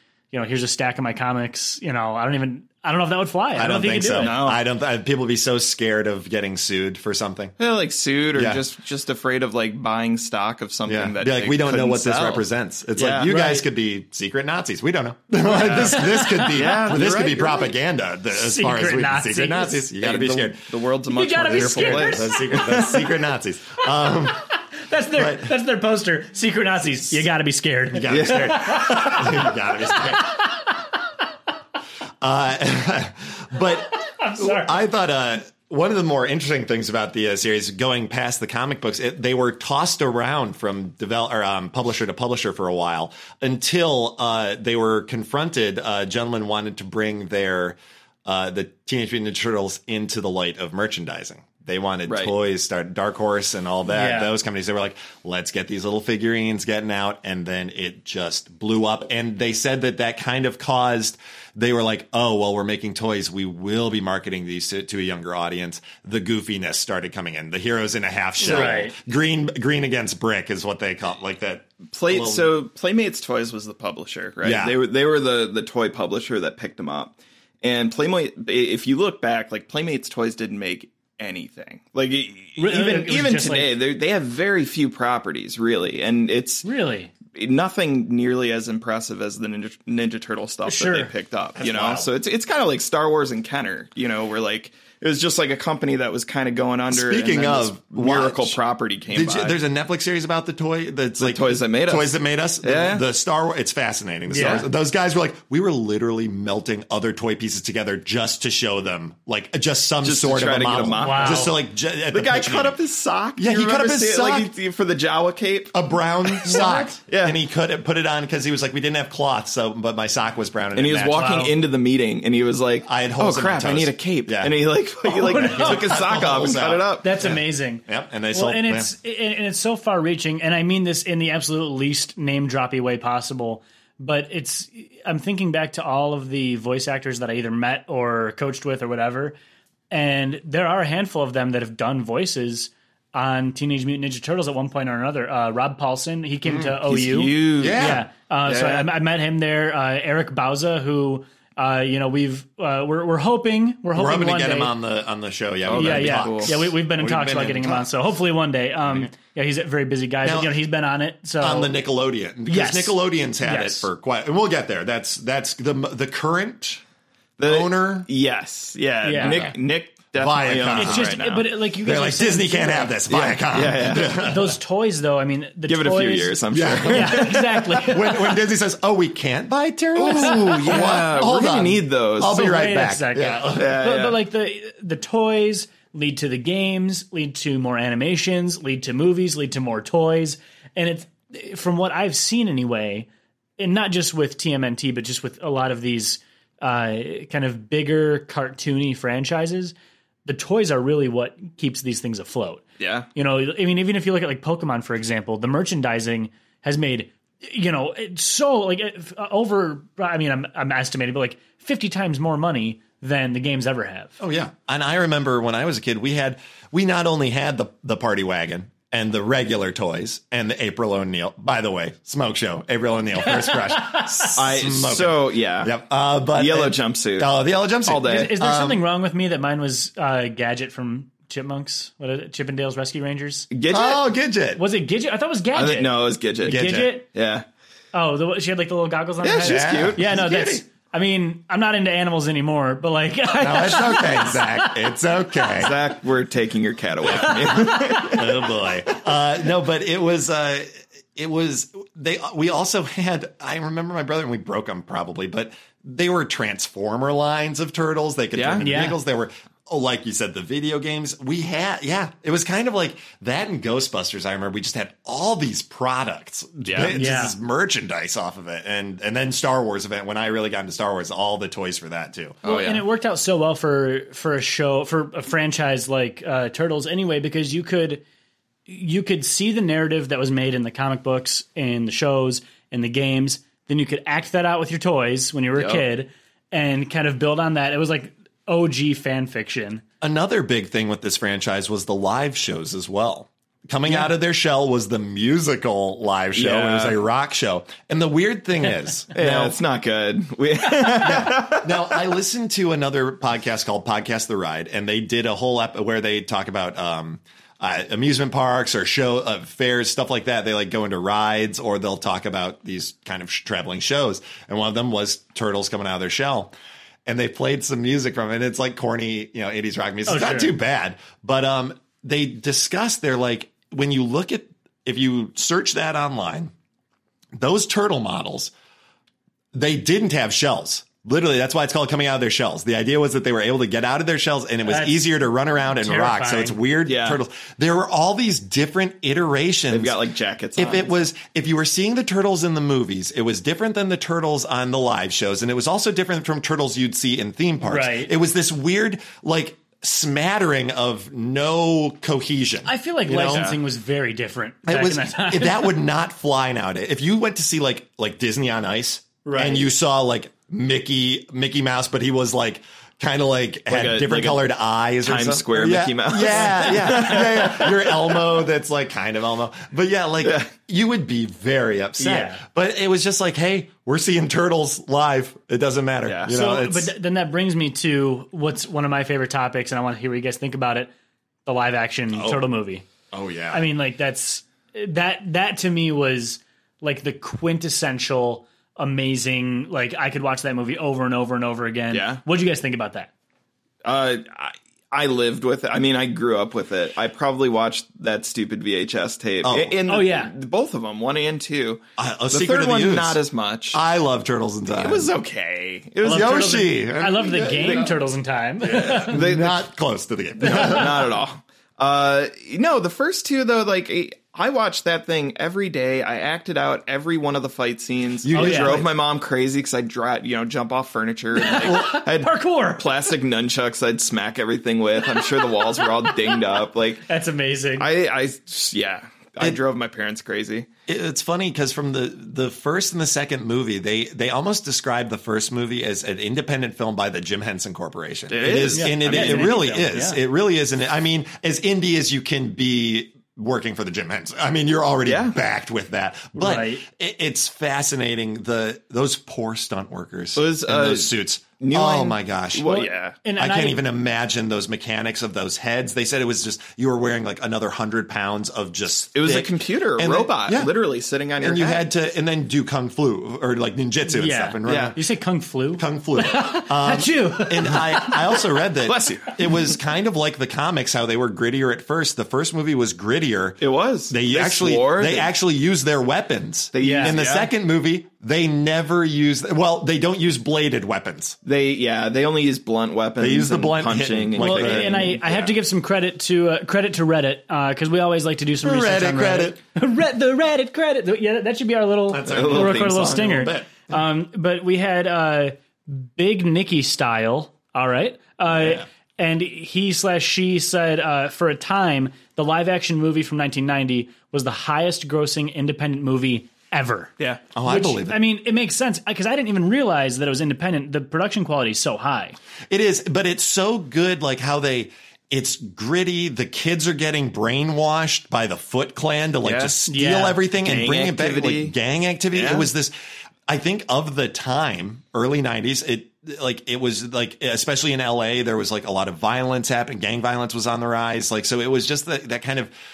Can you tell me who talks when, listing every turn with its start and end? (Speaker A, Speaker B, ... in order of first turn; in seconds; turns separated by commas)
Speaker A: 0.3-4.3, Speaker B: 3.6-7.5, Speaker C: 4.2-4.6, Speaker C: 7.6-12.4, Speaker B: 8.3-8.6, Speaker B: 10.9-20.7, Speaker C: 13.0-13.7, Speaker C: 15.4-17.7, Speaker A: 15.7-16.8, Speaker A: 18.3-19.9, Speaker C: 20.0-23.1, Speaker A: 21.1-22.7, Speaker B: 21.4-24.4, Speaker A: 24.1-30.9, Speaker B: 25.1-25.5, Speaker B: 27.9-30.4, Speaker C: 28.1-28.6, Speaker B: 32.2-72.5, Speaker A: 33.8-34.8, Speaker C: 52.1-52.3, Speaker A: 53.9-54.3, Speaker A: 68.4-69.0, Speaker C: 68.4-68.8, Speaker C: 71.9-86.7, Speaker B: 74.4-74.8, Speaker A: 82.6-83.7, Speaker A: 86.6-87.1, Speaker C: 87.3-99.6, Speaker A: 90.7-91.1, Speaker B: 91.6-92.1, Speaker B: 96.9-98.6, Speaker B: 99.1-112.8, Speaker C: 101.2-102.1, Speaker C: 102.6-103.0, Speaker A: 104.3-104.7, Speaker C: 104.4-104.7, Speaker C: 110.0-117.4, Speaker A: 111.0-111.5, Speaker B: 113.4-114.5, Speaker B: 115.7-121.4, Speaker A: 116.4-117.0, Speaker C: 120.8-127.2, Speaker A: 121.1-121.5, Speaker B: 122.8-124.6, Speaker A: 125.0-126.1, Speaker B: 125.3-128.9, Speaker A: 127.0-139.3, Speaker A: 139.9-154.7, Speaker B: 146.5-146.7, Speaker C: 146.8-148.9, Speaker B: 147.6-148.1, Speaker B: 153.9-157.9, Speaker C: 155.7-156.5, Speaker A: 155.8-161.8, Speaker B: 160.2-160.5, Speaker B: 161.4-166.8, Speaker A: 162.5-163.9, Speaker C: 167.4-171.5, Speaker B: 167.4-168.1, Speaker A: 169.0-169.5, Speaker B: 169.2-169.6, Speaker B: 170.2-174.6, Speaker A: 170.8-173.0, Speaker C: 173.1-174.2, Speaker A: 173.9-178.4, Speaker C: 175.7-177.9, Speaker B: 176.5-183.8, Speaker C: 180.0-182.4, Speaker A: 180.2-181.0, Speaker A: 182.3-199.7, Speaker C: 183.5-184.2, Speaker A: 200.3-202.6, Speaker C: 202.8-203.1, Speaker A: 203.2-214.2, Speaker B: 214.2-228.8, Speaker A: 223.3-224.3, Speaker C: 224.3-225.8, Speaker C: 226.3-227.3, Speaker C: 227.9-228.3, Speaker A: 227.9-233.5, Speaker C: 233.5-234.0, Speaker B: 233.7-234.6, Speaker A: 234.6-237.1, Speaker C: 235.6-237.4, Speaker B: 236.4-236.9, Speaker A: 237.9-244.9, Speaker C: 239.2-240.6, Speaker B: 239.4-240.5, Speaker B: 243.4-245.8, Speaker C: 245.6-248.4, Speaker B: 247.1-272.4, Speaker A: 247.2-248.1, Speaker C: 258.4-258.7, Speaker A: 258.6-259.0, Speaker C: 266.6-267.0, Speaker A: 266.9-267.4, Speaker C: 272.4-272.8, Speaker A: 272.4-278.0, Speaker A: 278.7-289.8, Speaker C: 285.6-285.8, Speaker B: 290.0-299.6, Speaker C: 296.4-297.0, Speaker C: 299.1-302.0, Speaker B: 301.0-316.5, Speaker B: 317.1-326.5, Speaker A: 320.1-320.5, Speaker B: 327.4-328.5, Speaker B: 329.5-340.0, Speaker A: 334.6-335.0, Speaker A: 335.8-336.6, Speaker C: 336.9-337.2, Speaker C: 339.7-341.0, Speaker B: 340.6-353.5, Speaker A: 347.6-348.1, Speaker A: 352.7-355.7, Speaker C: 353.2-353.6, Speaker B: 354.7-376.9, Speaker A: 359.2-359.7, Speaker C: 363.7-364.5, Speaker C: 365.0-368.3, Speaker A: 366.5-366.9, Speaker C: 370.2-370.5, Speaker A: 372.0-372.4, Speaker C: 376.1-376.4, Speaker A: 376.3-380.9, Speaker A: 381.4-382.9, Speaker B: 382.1-382.4, Speaker B: 383.1-383.6, Speaker A: 383.5-393.1, Speaker C: 391.9-392.2, Speaker C: 393.8-403.8, Speaker B: 399.4-399.8, Speaker A: 399.9-400.3, Speaker B: 402.0-403.2, Speaker B: 403.7-405.1, Speaker C: 404.7-406.6, Speaker B: 406.0-407.9, Speaker A: 406.0-409.2, Speaker C: 407.6-407.9, Speaker B: 408.6-411.1, Speaker C: 408.9-409.6, Speaker C: 410.4-427.1, Speaker B: 418.2-418.9, Speaker A: 418.3-418.8, Speaker A: 421.4-423.0, Speaker A: 425.2-426.4, Speaker A: 427.1-427.9, Speaker C: 427.8-430.7, Speaker B: 430.9-452.8, Speaker C: 438.3-439.6, Speaker A: 438.7-440.2, Speaker C: 445.1-445.4, Speaker A: 446.4-446.8, Speaker C: 450.4-453.2, Speaker A: 452.6-453.8, Speaker B: 453.4-460.7, Speaker C: 459.1-461.9, Speaker B: 461.4-465.0, Speaker A: 464.1-468.4, Speaker C: 464.6-465.0, Speaker B: 465.8-473.6, Speaker C: 468.8-469.7, Speaker C: 473.6-475.3, Speaker B: 474.1-481.4, Speaker C: 476.7-477.5, Speaker A: 476.8-477.2, Speaker C: 481.4-485.2, Speaker B: 483.2-485.5, Speaker A: 484.4-507.1, Speaker B: 488.6-489.6, Speaker B: 492.1-493.7, Speaker C: 492.2-493.5, Speaker B: 498.5-498.8, Speaker B: 507.5-508.2, Speaker A: 507.6-512.4, Speaker B: 512.7-522.9, Speaker C: 519.4-519.8, Speaker A: 519.9-520.4, Speaker C: 520.6-521.7, Speaker C: 522.3-522.7, Speaker B: 523.5-532.7